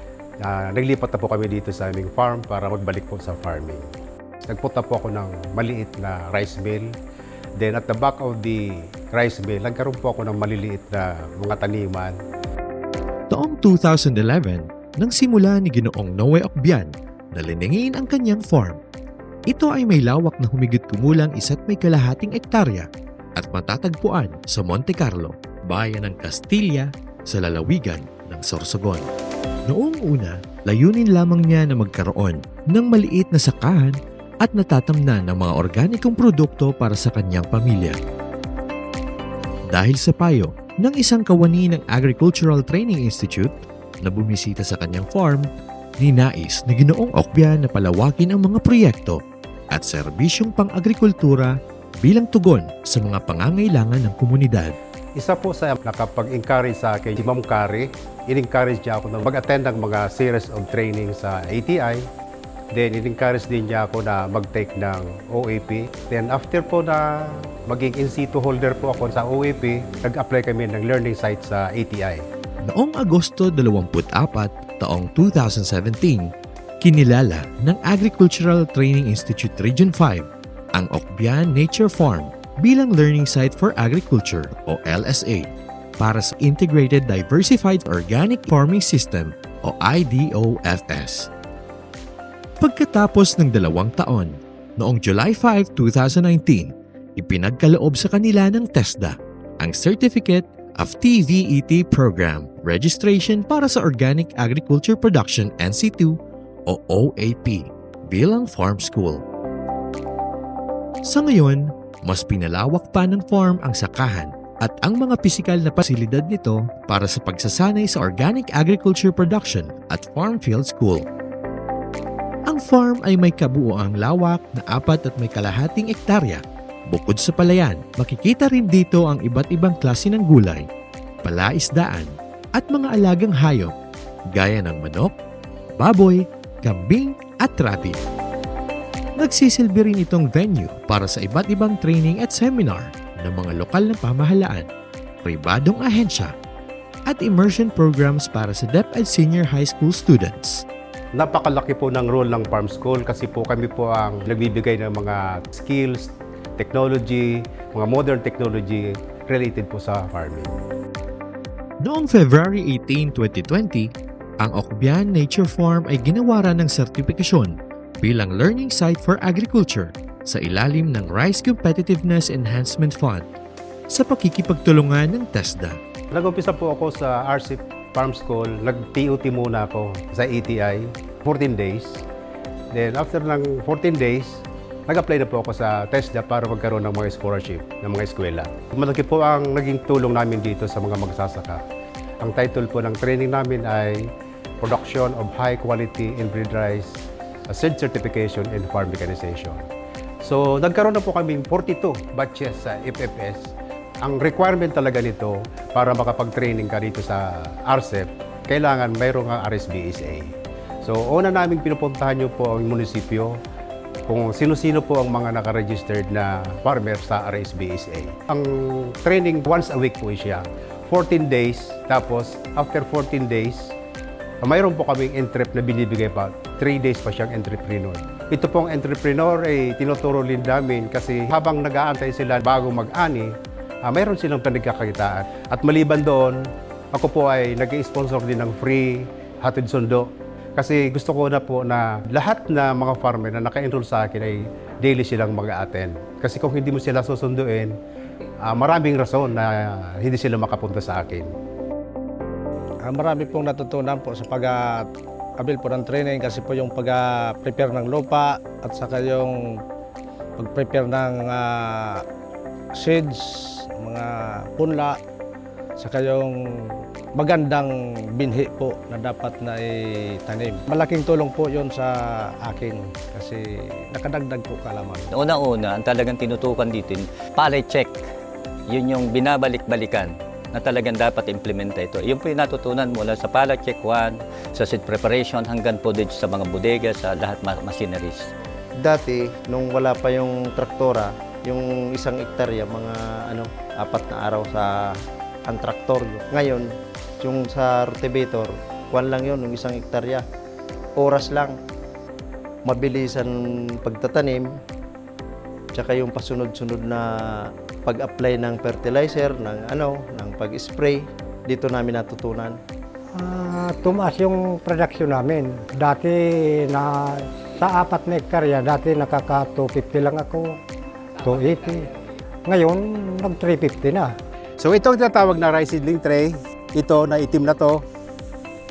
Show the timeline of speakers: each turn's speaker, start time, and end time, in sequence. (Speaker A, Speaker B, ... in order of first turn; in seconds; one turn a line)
Speaker A: 0.4-3.9
Speaker A: 4.4-6.9
Speaker A: 7.6-12.2
Speaker B: 13.3-18.8
Speaker B: 19.5-29.1
Speaker B: 29.7-38.0
Speaker B: 39.7-43.5
Speaker B: 44.0-45.5
Speaker B: 46.0-49.2
Speaker B: 49.7-54.8
Speaker A: 55.2-62.0
Speaker A: 62.7-72.2
Speaker B: 72.7-91.3
Speaker B: 92.6-106.2
Speaker B: 106.7-109.2
Speaker B: 111.1-121.0
Speaker B: 122.5-130.7
Speaker B: 131.2-133.7
Speaker B: 134.3-135.2
Speaker B: 135.8-138.0
Speaker B: 139.2-144.7
Speaker B: 145.2-146.3
Speaker B: 147.1-150.7
Speaker A: 151.2-160.6
Speaker B: 161.8-163.9
Speaker B: 164.4-173.3
Speaker B: 173.9-175.8
Speaker A: 176.1-182.0
Speaker A: 182.7-191.6
Speaker A: 192.2-194.0
Speaker A: 194.6-199.6
Speaker A: 200.2-203.4
Speaker A: 204.0-210.3
Speaker A: 210.8-213.4
Speaker A: 214.1-223.7
Speaker A: 224.4-233.3
Speaker A: 233.9-236.4
Speaker A: 236.9-247.7
Speaker A: 248.4-251.3
Speaker C: 252.9-254.9
Speaker C: 255.4-259.6
Speaker C: 260.4-262.1
Speaker C: 262.8-265.0
Speaker C: 265.8-275.1
Speaker D: 275.1-278.0
Speaker D: 278.7-288.3
Speaker E: 288.8-300.3
Speaker E: 301.0-301.6
Speaker E: 302.6-304.6
Speaker E: 305.7-312.6
Speaker F: 313.1-320.6
Speaker F: 321.2-321.9
Speaker F: 322.4-324.1
Speaker A: 324.6-327.8